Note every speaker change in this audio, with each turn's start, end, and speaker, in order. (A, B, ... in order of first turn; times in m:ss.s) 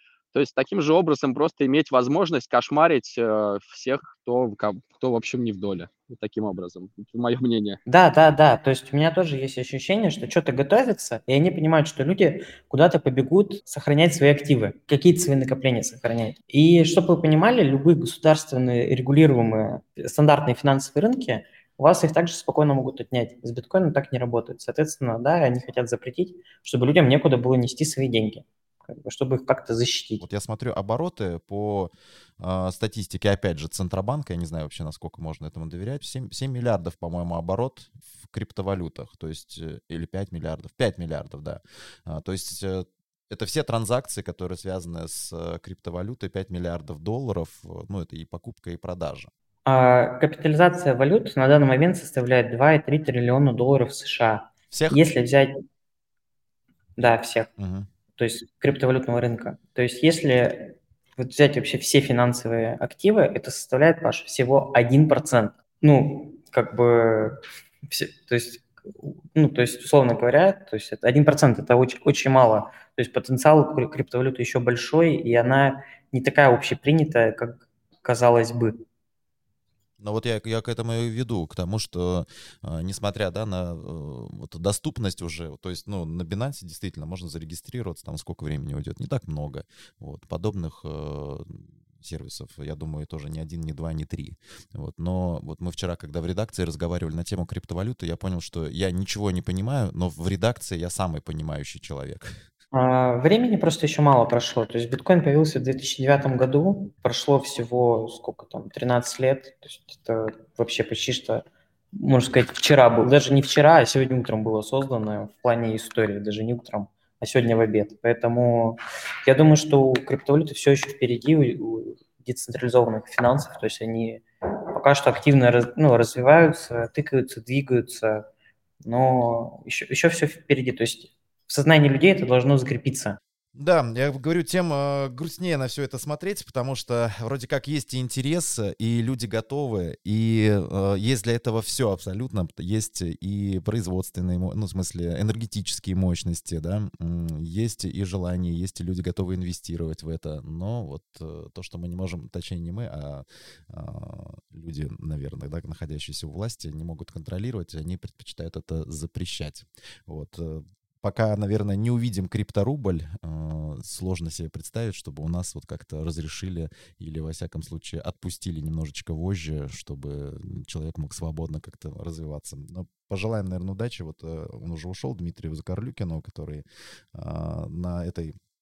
0:00.3-0:07.8 A
0:07.9-0:30.2 B
0:30.2-0:49.3 C
0:49.7-0:55.6 B
0:54.7-0:55.0 C
0:57.0-0:57.5 B
0:57.6-0:57.9 C
0:58.2-1:18.8 B
1:20.0-1:42.3 C
1:42.7-2:08.3 B
2:08.8-2:13.2 B
2:13.6-2:58.4 C